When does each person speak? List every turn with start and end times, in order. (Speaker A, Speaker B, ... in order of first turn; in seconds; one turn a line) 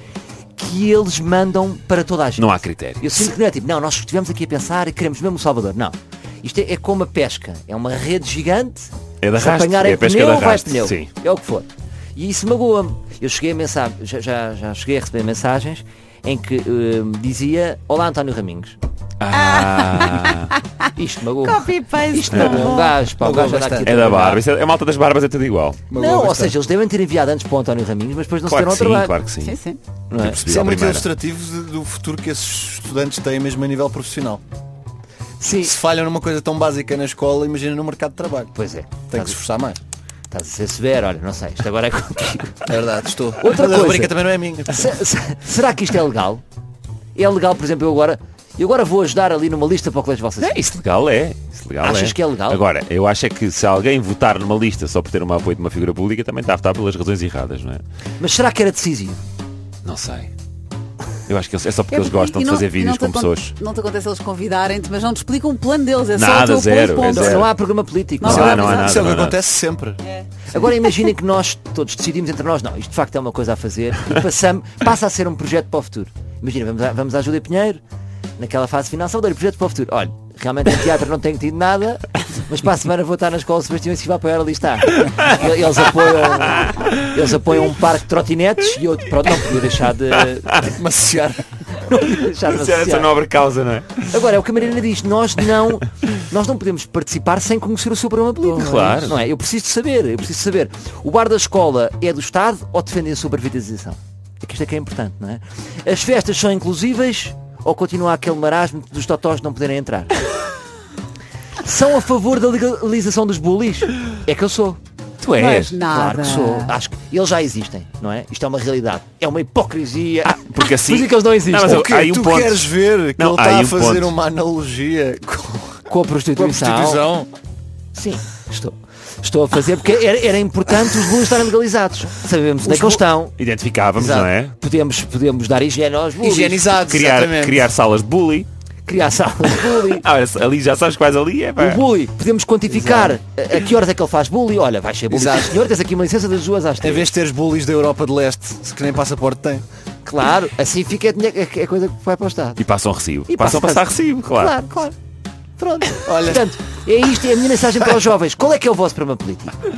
Speaker A: 0.6-18.8
Speaker B: 2.4-3.2
Speaker B: 9.2-11.1
Speaker B: 19.2-20.6
Speaker C: 19.3-20.5
Speaker A: 20.9-24.4
Speaker C: 21.4-23.0
Speaker B: 22.3-22.7
Speaker D: 22.4-23.9
Speaker B: 23.8-25.8
Speaker D: 25.9-26.6
Speaker A: 25.9-29.1
Speaker B: 28.5-29.6
Speaker C: 29.4-29.8
Speaker A: 30.1-30.4
Speaker B: 30.1-31.1
Speaker D: 30.3-34.4
Speaker A: 35.4-35.7
Speaker D: 35.6-38.5
Speaker A: 38.5-39.4
Speaker D: 39.1-39.8
Speaker A: 40.3-42.7
Speaker D: 42.7-45.0
Speaker A: 43.4-44.1
Speaker A: 44.7-46.4
Speaker A: 47.1-50.7
Speaker B: 50.4-57.8
Speaker A: 51.8-52.6
Speaker A: 58.2-59.2
Speaker B: 59.8-60.3
Speaker B: 61.3-63.5
Speaker C: 61.9-67.5
Speaker B: 66.1-67.5
Speaker A: 67.1-68.7
Speaker C: 68.2-69.0
Speaker D: 68.2-70.0
Speaker B: 68.2-69.4
Speaker A: 70.5-77.8
Speaker A: 78.4-90.7
Speaker B: 90.3-90.8
Speaker D: 90.7-91.5
Speaker A: 91.8-93.1
Speaker B: 92.2-94.1
Speaker A: 94.1-110.1
Speaker B: 98.4-99.2
Speaker A: 111.6-114.8
Speaker B: 115.2-115.8
Speaker C: 115.4-116.7
Speaker A: 115.9-121.8
Speaker B: 120.2-124.1
Speaker D: 121.6-127.3
Speaker A: 125.9-127.1
Speaker A: 128.0-133.3
Speaker D: 132.7-133.0
Speaker B: 133.4-134.6
Speaker D: 134.0-134.3
Speaker A: 134.6-136.7
Speaker D: 136.2-137.7
Speaker B: 136.7-138.5
Speaker A: 138.9-140.1
Speaker B: 139.5-141.8
Speaker A: 141.6-147.1
Speaker D: 142.7-143.2
Speaker D: 145.1-145.6
Speaker D: 146.8-149.6
Speaker A: 150.1-152.6
Speaker B: 152.6-154.6
Speaker A: 153.3-155.0
Speaker A: 155.6-159.6
Speaker D: 156.1-156.4